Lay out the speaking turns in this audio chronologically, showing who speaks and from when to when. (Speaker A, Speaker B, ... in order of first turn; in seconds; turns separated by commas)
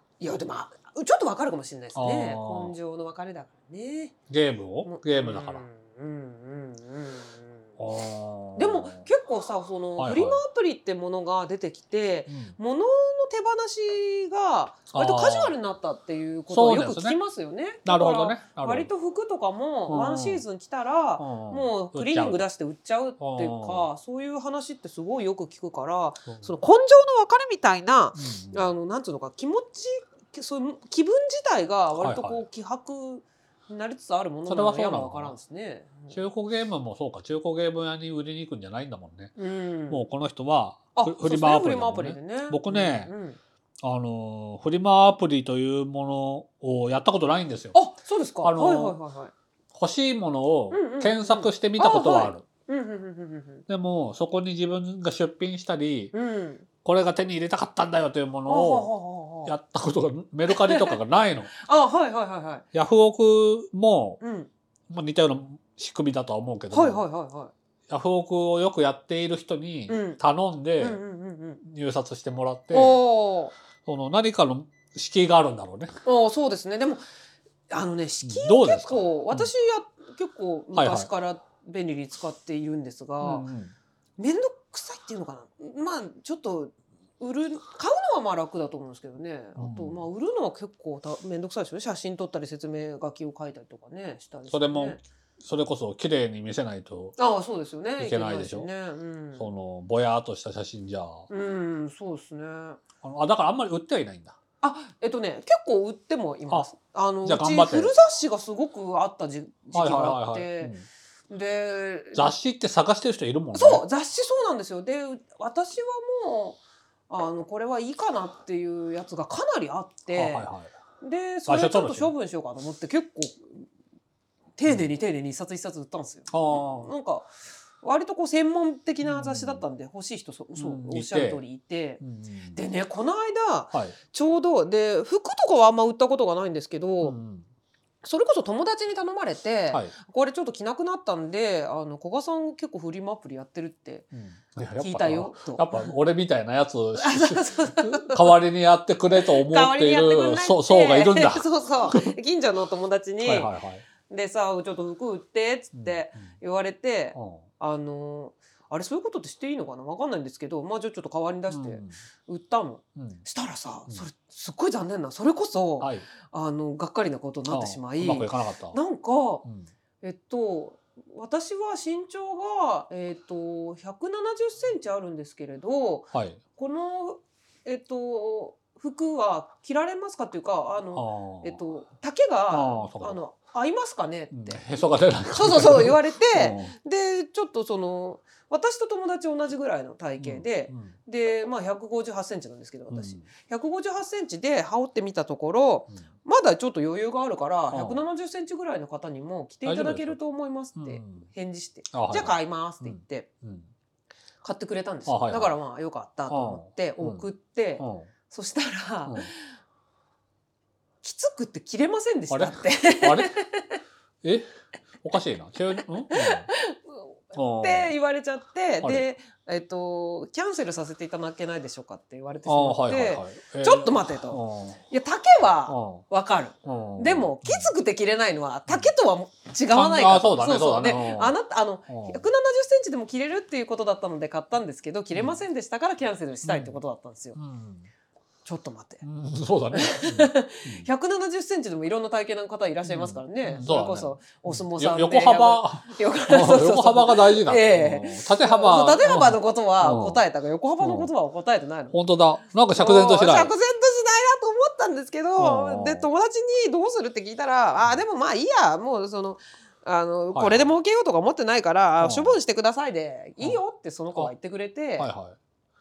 Speaker A: 0.2-4.1, Speaker B: 1.9-2.7, Speaker B: 4.3-5.7, Speaker A: 4.8-7.7, Speaker B: 7.8-9.1, Speaker A: 8.6-36.2, Speaker B: 10.0-10.4, Speaker B: 12.3-12.6, Speaker B: 14.9-15.5, Speaker B: 16.5-17.2, Speaker B: 17.9-18.9, Speaker B: 19.9-20.4, Speaker B: 21.2-22.4, Speaker B: 23.2-23.9, Speaker B: 28.2-28.7, Speaker B: 32.0-32.4, Speaker B: 34.5-35.4, Speaker B: 36.1-39.3, Speaker A: 39.4-40.1, Speaker B: 39.9-43.1, Speaker A: 41.0-43.4, Speaker B: 43.8-47.8, Speaker A: 47.7-49.3, Speaker B: 48.4-49.0, Speaker B: 49.7-52.4, Speaker A: 50.7-53.6, Speaker B: 53.7-56.1, Speaker A: 56.1-56.6, Speaker B: 56.8-58.9, Speaker A: 58.5-59.5, Speaker B: 59.5-61.5, Speaker A: 60.5-61.0, Speaker A: 61.5-62.6, Speaker B: 62.7-64.2, Speaker A: 64.2-64.5, Speaker B: 64.9-67.0, Speaker A: 66.7-67.5, Speaker B: 67.9-71.0, Speaker A: 69.9-70.2, Speaker A: 70.8-71.6, Speaker B: 71.6-73.0, Speaker A: 72.7-73.5, Speaker B: 73.9-75.9, Speaker A: 76.0-77.0, Speaker A: 77.7-83.5, Speaker B: 78.2-79.5, Speaker B: 80.7-81.1, Speaker B: 83.2-83.7, Speaker A: 84.2-95.0, Speaker B: 89.6-90.0, Speaker B: 94.5-97.2, Speaker A: 97.2-99.5, Speaker B: 98.0-98.7, Speaker B: 99.4-101.3, Speaker A: 101.3-102.8, Speaker B: 103.0-104.4, Speaker A: 104.6-110.7, Speaker B: 107.2-107.9, Speaker B: 109.7-110.9, Speaker A: 111.3-112.3, Speaker B: 112.2-113.8, Speaker A: 113.5-120.5, Speaker B: 120.1-120.7, Speaker A: 121.0-123.7, Speaker B: 121.5-122.1, Speaker A: 124.6-127.3, Speaker B: 126.3-126.9, Speaker A: 127.8-132.0, Speaker B: 129.0-129.6, Speaker B: 130.6-131.4, Speaker B: 132.0-132.6, Speaker A: 132.6-137.2, Speaker B: 137.0-137.4, Speaker A: 138.0-144.1, Speaker B: 144.1-152.1, Speaker A: 144.8-145.9, Speaker A: 147.0-148.3, Speaker A: 149.1-153.5, Speaker B: 153.2-153.8, Speaker A: 154.1-169.4, Speaker B: 155.8-156.3, Speaker B: 157.2-157.4, Speaker B: 161.5-161.9, Speaker B: 163.0-163.2, Speaker B: 165.8-166.1, Speaker B: 167.5-168.8, Speaker A: 170.0-184.7, Speaker B: 176.1-176.4, Speaker B: 180.9-181.6, Speaker B: 182.5-183.2, Speaker B: 184.3-186.7, Speaker A: 185.3-203.3, Speaker B: 190.2-190.9, Speaker B: 192.9-193.2, Speaker B: 197.7-198.0, Speaker B: 199.7-200.2, Speaker B: 200.8-201.3, Speaker B: 201.9-203.7, Speaker A: 204.4-209.3, Speaker B: 205.1-205.5, Speaker B: 206.3-207.2, Speaker B: 207.8-208.1, Speaker A: 211.0-213.8, Speaker B: 212.3-213.3, Speaker B: 214.2-214.5, Speaker B: 215.0-216.5, Speaker A: 216.1-237.4, Speaker B: 217.3-217.9, Speaker B: 222.5-224.8, Speaker B: 225.7-226.0, Speaker B: 226.7-227.7, Speaker B: 229.7-231.3, Speaker B: 231.9-232.2, Speaker B: 235.1-235.4, Speaker B: 236.4-236.8, Speaker B: 237.3-237.9, Speaker A: 238.4-239.0, Speaker B: 239.0-240.9, Speaker A: 239.7-252.0, Speaker B: 242.9-250.2, Speaker B: 250.8-251.1, Speaker B: 251.9-253.5, Speaker A: 252.7-265.1, Speaker B: 255.4-256.1, Speaker B: 260.3-260.7, Speaker B: 262.0-262.4, Speaker B: 265.0-265.4